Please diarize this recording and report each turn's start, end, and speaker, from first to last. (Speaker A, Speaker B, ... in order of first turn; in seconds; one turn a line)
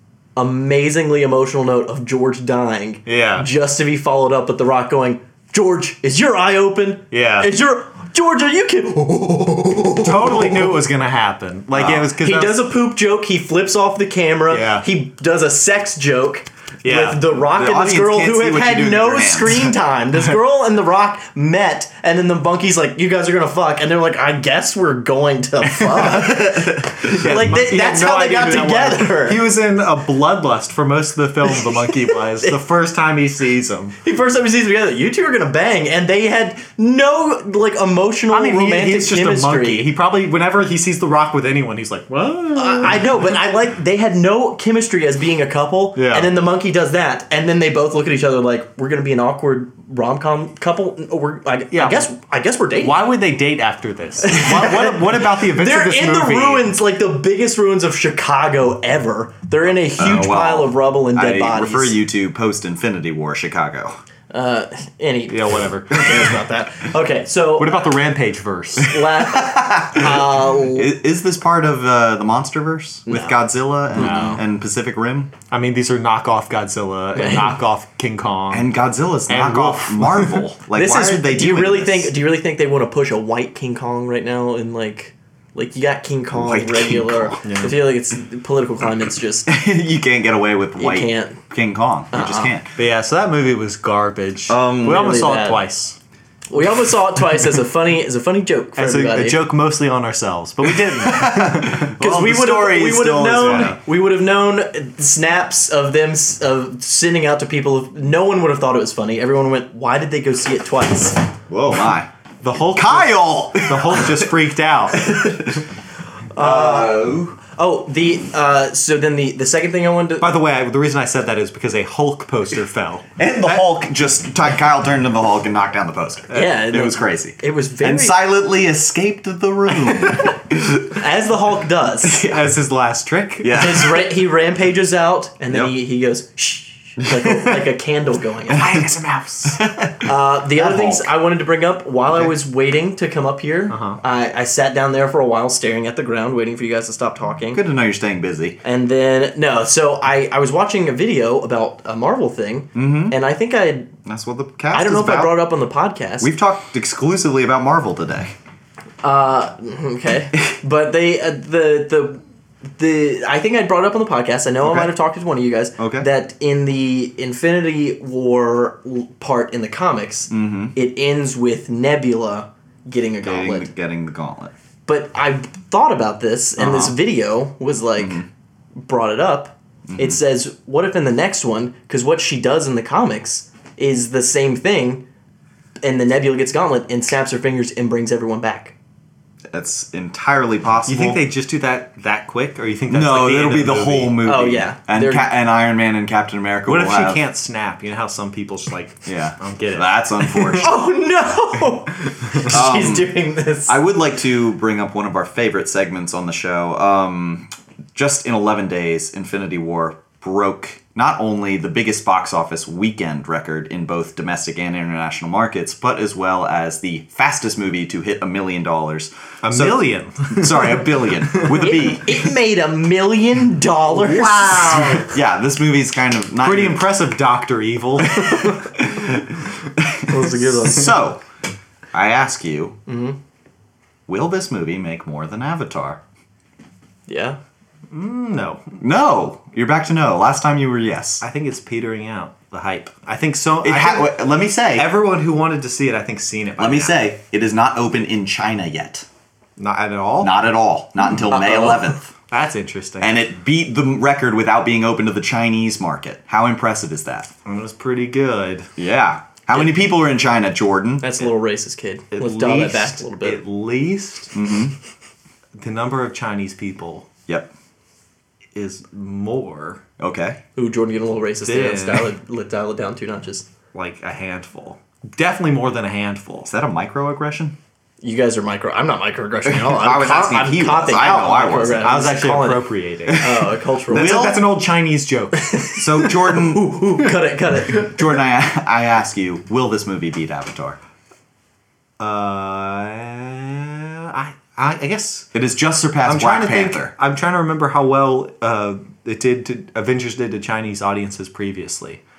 Speaker A: 0.4-10.8
Speaker B: 3.1-3.5
Speaker B: 7.1-7.5
Speaker B: 10.0-12.6
Speaker C: 11.7-12.1
Speaker A: 12.2-29.4
Speaker B: 14.5-14.9
Speaker B: 16.8-17.2
Speaker C: 17.5-19.8
Speaker B: 25.6-34.0
Speaker C: 27.0-27.4
Speaker A: 31.6-32.5
Speaker A: 34.0-39.9
Speaker B: 38.3-43.1
Speaker A: 42.6-53.0
Speaker B: 46.0-46.3
Speaker B: 51.7-52.1
Speaker B: 52.8-56.7
Speaker A: 54.2-62.0
Speaker C: 60.0-64.0
Speaker A: 64.3-67.9
Speaker B: 65.3-66.3
Speaker B: 67.6-69.0
Speaker A: 68.8-70.9
Speaker C: 69.3-75.3
Speaker A: 73.1-74.4
Speaker B: 74.0-74.4
Speaker B: 75.5-78.7
Speaker A: 77.2-77.6
Speaker C: 78.5-82.1
Speaker B: 79.3-80.4
Speaker A: 80.7-89.5
Speaker C: 86.3-87.4
Speaker B: 87.4-87.7
Speaker C: 89.5-92.7
Speaker A: 90.8-91.4
Speaker A: 92.1-92.5
Speaker B: 92.8-96.0
Speaker C: 94.5-95.1
Speaker A: 94.8-95.6
Speaker A: 96.5-99.4
Speaker B: 98.8-101.9
Speaker C: 100.8-103.8
Speaker A: 102.0-111.2
Speaker B: 103.4-103.8
Speaker C: 111.5-112.1
Speaker B: 112.4-115.1
Speaker C: 112.7-114.3
Speaker C: 114.9-115.6
Speaker A: 116.3-120.3
Speaker C: 116.4-117.4
Speaker B: 120.2-123.7
Speaker C: 123.2-130.8
Speaker A: 126.3-128.2
Speaker A: 130.9-132.2
Speaker B: 132.1-133.7
Speaker C: 133.4-134.1
Speaker A: 133.5-138.9
Speaker C: 137.0-137.3
Speaker B: 138.5-139.7
Speaker C: 139.5-141.1
Speaker A: 140.0-147.6
Speaker B: 143.7-144.0
Speaker C: 147.5-148.6
Speaker A: 148.6-153.9
Speaker C: 152.8-153.2
Speaker C: 154.1-155.4
Speaker A: 154.7-156.3
Speaker C: 156.2-158.3
Speaker A: 159.0-162.2
Speaker A: 162.8-173.7
Speaker C: 164.6-164.9
Speaker C: 165.8-166.1
Speaker C: 170.3-170.8
Speaker C: 173.2-174.5
Speaker A: 174.9-178.2
Speaker C: 176.6-176.9
Speaker C: 178.0-178.3
Speaker A: 178.8-185.0
Speaker C: 179.9-180.2
Speaker A: 185.8-188.7
Speaker C: 189.5-191.2
Speaker B: 190.9-194.2
Speaker C: 192.9-197.2
Speaker A: 194.2-195.3
Speaker B: 196.7-200.7
Speaker C: 199.1-200.7
Speaker A: 200.6-203.8
Speaker C: 202.5-203.1
Speaker C: 203.7-222.2
Speaker B: 219.4-221.7
Speaker A: 221.5-225.1
Speaker B: 223.9-225.1
Speaker C: 225.0-226.9
Speaker B: 226.4-228.6
Speaker C: 228.8-229.2
Speaker C: 229.8-231.2
Speaker A: 230.1-230.9
Speaker C: 231.9-232.8
Speaker A: 232.9-233.2
Speaker C: 234.1-236.0
Speaker A: 237.1-237.4
Speaker B: 237.9-238.8
Speaker C: 238.8-241.2
Speaker B: 241.2-244.2
Speaker C: 243.6-244.9
Speaker B: 244.7-247.0
Speaker C: 246.6-249.1
Speaker B: 249.6-250.4
Speaker C: 250.2-252.0
Speaker A: 251.3-252.0
Speaker B: 252.3-253.1
Speaker C: 253.0-257.3
Speaker B: 257.4-258.7
Speaker C: 258.8-261.2
Speaker A: 261.0-263.4
Speaker B: 262.1-264.3
Speaker C: 264.3-264.8
Speaker B: 265.6-267.1
Speaker B: 268.6-269.8
Speaker C: 270.0-270.4
Speaker A: 270.6-273.4
Speaker B: 271.4-272.1
Speaker B: 273.7-276.5
Speaker C: 276.5-277.6
Speaker A: 278.0-284.4
Speaker C: 279.4-281.9
Speaker B: 281.8-283.3
Speaker C: 283.1-284.4
Speaker B: 283.9-285.7
Speaker A: 285.4-288.2
Speaker C: 285.8-286.8
Speaker C: 287.7-290.8
Speaker B: 292.0-295.3
Speaker C: 295.3-296.9
Speaker B: 296.0-302.0